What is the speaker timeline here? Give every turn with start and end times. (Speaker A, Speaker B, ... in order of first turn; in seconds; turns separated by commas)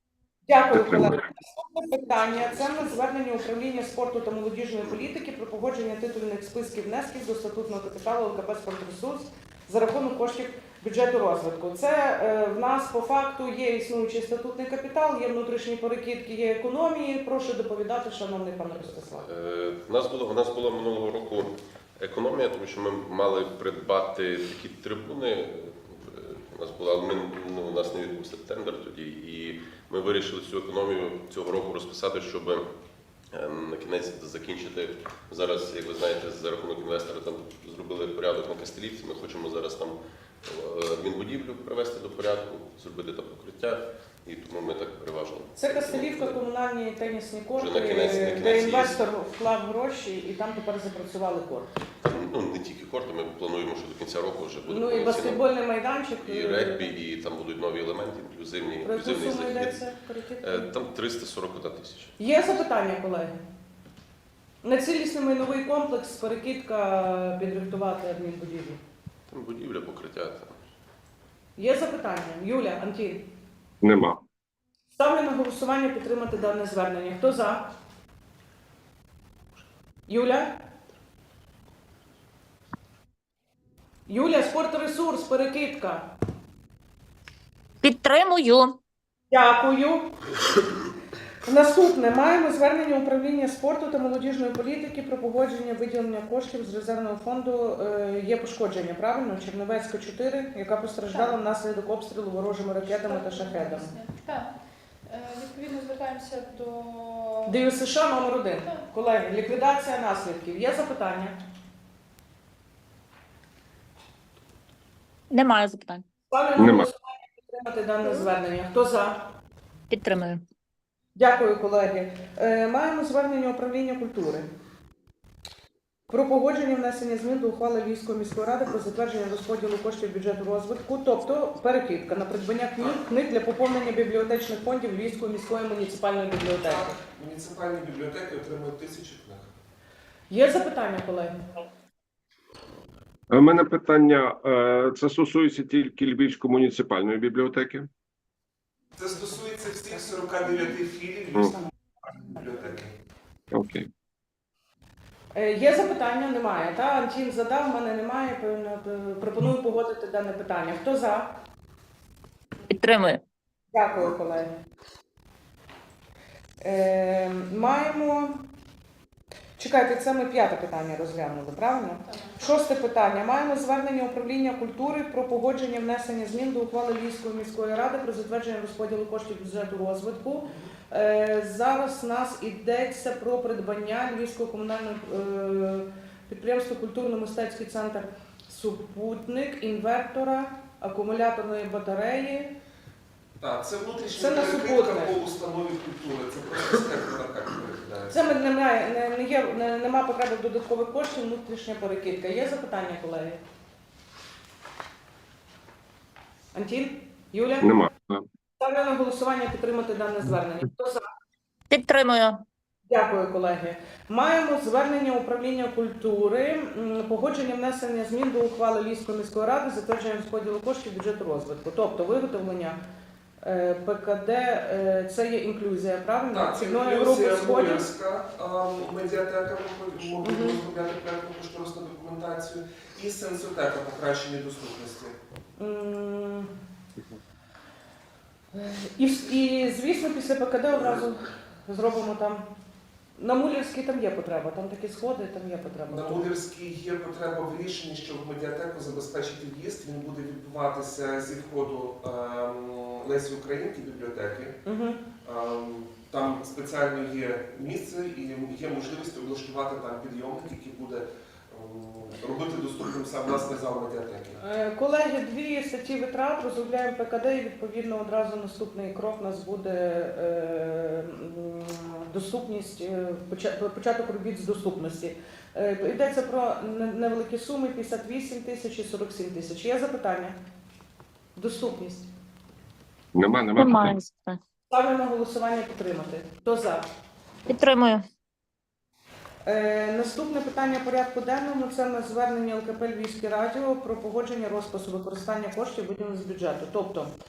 Speaker A: 0.5-19.3, Speaker B: 0.7-1.2, Speaker C: 19.2-32.7, Speaker C: 33.3-46.4, Speaker A: 45.6-51.7, Speaker C: 47.5-49.0, Speaker C: 52.0-55.4, Speaker A: 54.7-56.9, Speaker C: 56.2-59.9, Speaker A: 58.8-60.7, Speaker C: 60.4-62.2, Speaker A: 62.2-63.4, Speaker A: 64.6-68.8, Speaker C: 69.3-70.6, Speaker A: 71.6-73.3, Speaker B: 73.8-74.2, Speaker A: 74.9-77.7, Speaker A: 80.1-80.5, Speaker A: 84.1-86.1, Speaker D: 87.8-88.8, Speaker A: 89.3-90.1, Speaker A: 91.5-103.9, Speaker E: 101.1-101.4, Speaker E: 102.8-104.5, Speaker E: 105.1-107.6, Speaker A: 107.5-111.4, Speaker D: 115.3-116.0, Speaker A: 116.3-119.3, Speaker B: 116.6-116.9, Speaker D: 119.9-120.4, Speaker A: 121.2-124.5, Speaker A: 126.1-136.9, Speaker F: 136.6-139.5, Speaker A: 140.3-141.4, Speaker B: 143.3-147.9, Speaker F: 149.0-151.5, Speaker F: 152.3-152.9, Speaker B: 153.5-153.9, Speaker A: 155.3-161.3, Speaker D: 162.7-163.2, Speaker A: 163.7-164.5, Speaker A: 166.6-168.4, Speaker A: 169.6-192.5, Speaker E: 172.1-172.4, Speaker F: 193.4-198.3, Speaker A: 194.2-195.2, Speaker A: 198.1-203.4, Speaker A: 206.5-207.7, Speaker B: 207.6-208.3, Speaker A: 208.6-211.0, Speaker D: 211.7-212.4, Speaker A: 212.9-222.8, Speaker A: 223.4-227.9, Speaker F: 226.3-235.2, Speaker A: 230.2-230.6, Speaker A: 235.6-236.5, Speaker A: 238.5-242.5, Speaker A: 243.2-246.2, Speaker F: 245.9-254.6, Speaker A: 254.7-255.0, Speaker F: 255.2-264.4, Speaker A: 264.4-280.4, Speaker A: 281.4-282.1, Speaker B: 283.1-284.0, Speaker D: 283.6-284.4, Speaker A: 284.7-286.8, Speaker D: 287.5-288.0, Speaker A: 289.4-297.1